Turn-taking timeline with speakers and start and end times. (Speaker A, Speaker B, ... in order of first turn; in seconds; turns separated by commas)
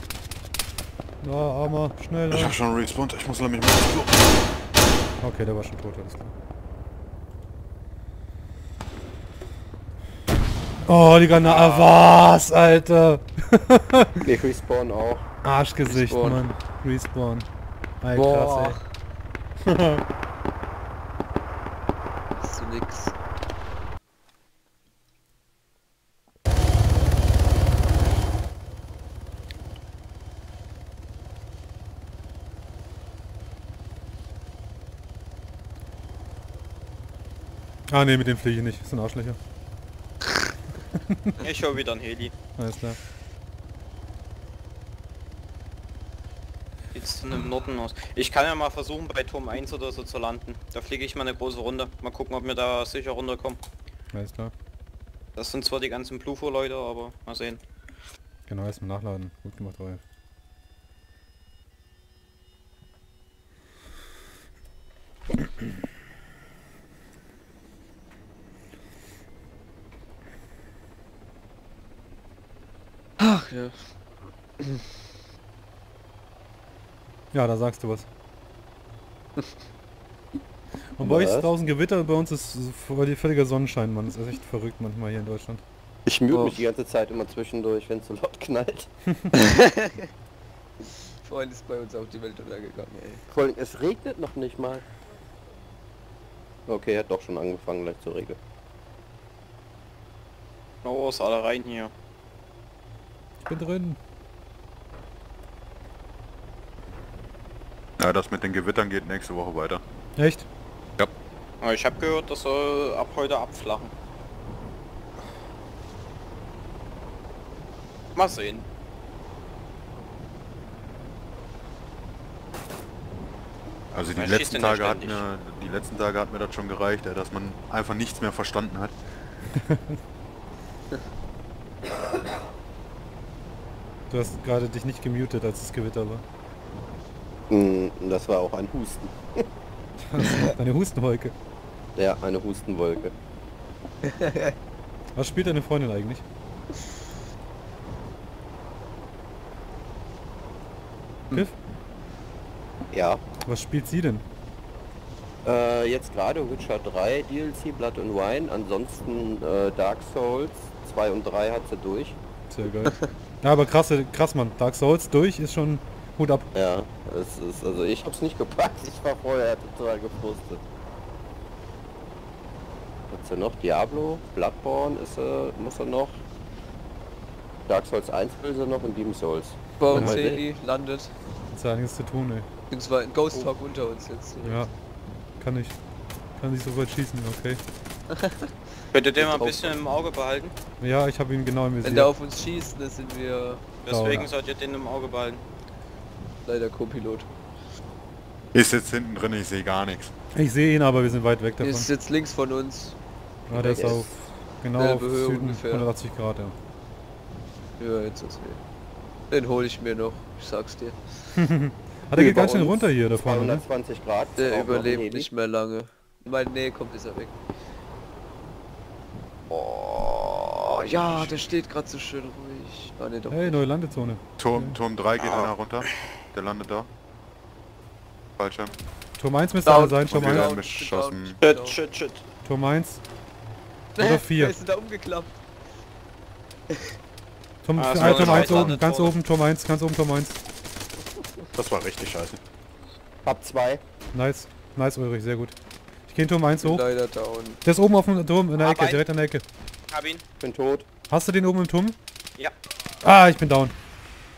Speaker A: 1.2-2.6, Speaker B: 2.3-4.1, Speaker A: 5.2-6.3, Speaker A: 10.9-14.2, Speaker B: 11.4-11.9, Speaker C: 14.2-15.2, Speaker A: 15.4-17.5, Speaker D: 15.8-16.4, Speaker A: 18.0-18.8, Speaker D: 18.1-18.8, Speaker A: 19.7-20.0, Speaker D: 22.4-23.1, Speaker A: 37.9-39.4, Speaker A: 41.0-41.3, Speaker E: 41.4-42.3, Speaker A: 42.6-43.0, Speaker E: 46.9-53.6, Speaker A: 54.1-54.5, Speaker E: 55.4-57.6, Speaker A: 58.5-60.0, Speaker D: 73.2-73.8, Speaker A: 77.3-78.1, Speaker A: 81.0-85.6, Speaker C: 81.0-81.5, Speaker C: 86.1-88.9, Speaker D: 86.3-86.7, Speaker D: 89.4-90.1, Speaker D: 91.2-93.2, Speaker C: 93.3-94.8, Speaker C: 96.7-98.4, Speaker E: 100.8-101.9, Speaker A: 103.4-104.0, Speaker B: 108.0-109.8, Speaker A: 110.2-110.5, Speaker E: 111.6-113.9, Speaker E: 118.2-118.7, Speaker B: 123.9-128.9, Speaker E: 124.1-125.2, Speaker A: 129.5-130.0, Speaker A: 134.1-136.2, Speaker C: 137.5-139.5, Speaker A: 140.0-141.3, Speaker C: 142.0-143.2, Speaker D: 144.1-144.5, Speaker A: 145.2-146.2, Speaker C: 152.9-153.2, Speaker A: 153.5-154.2, Speaker C: 155.4-162.2, Speaker A: 162.5-166.5, Speaker C: 166.5-170.6, Speaker C: 173.1-176.2, Speaker C: 177.7-180.4, Speaker D: 179.8-181.1, Speaker A: 179.9-180.2, Speaker A: 181.5-182.5, Speaker D: 182.7-184.7, Speaker A: 184.4-184.7, Speaker A: 185.4-185.8, Speaker A: 186.4-187.6, Speaker D: 188.1-188.5, Speaker E: 188.9-190.5, Speaker D: 189.2-189.8, Speaker A: 190.8-192.1, Speaker D: 191.8-193.6, Speaker E: 193.8-195.4, Speaker A: 193.9-194.3, Speaker D: 196.4-197.3, Speaker B: 198.5-200.1, Speaker A: 200.3-201.9, Speaker D: 201.6-203.0, Speaker A: 203.5-206.6, Speaker D: 203.5-204.2, Speaker C: 203.7-204.1, Speaker D: 204.8-205.9, Speaker D: 207.8-208.6, Speaker D: 209.3-211.0, Speaker A: 211.4-213.6, Speaker C: 212.2-215.3, Speaker D: 214.4-217.3, Speaker D: 219.5-223.6, Speaker A: 223.3-224.8, Speaker B: 224.4-226.9, Speaker E: 225.2-225.5, Speaker B: 228.4-228.7, Speaker A: 229.2-230.4, Speaker D: 229.7-231.8, Speaker B: 230.0-231.4, Speaker E: 231.4-232.2, Speaker A: 232.4-233.0, Speaker D: 234.0-235.4, Speaker A: 234.0-234.6, Speaker A: 237.7-240.4, Speaker E: 237.8-239.2, Speaker B: 238.0-238.8, Speaker B: 241.6-242.4, Speaker C: 243.2-243.8, Speaker A: 244.1-245.5, Speaker A: 246.1-246.8, Speaker D: 246.6-247.6, Speaker A: 247.6-249.4, Speaker E: 248.6-249.1, Speaker E: 249.9-250.2, Speaker C: 250.4-250.9, Speaker A: 251.1-252.0, Speaker A: 253.0-253.7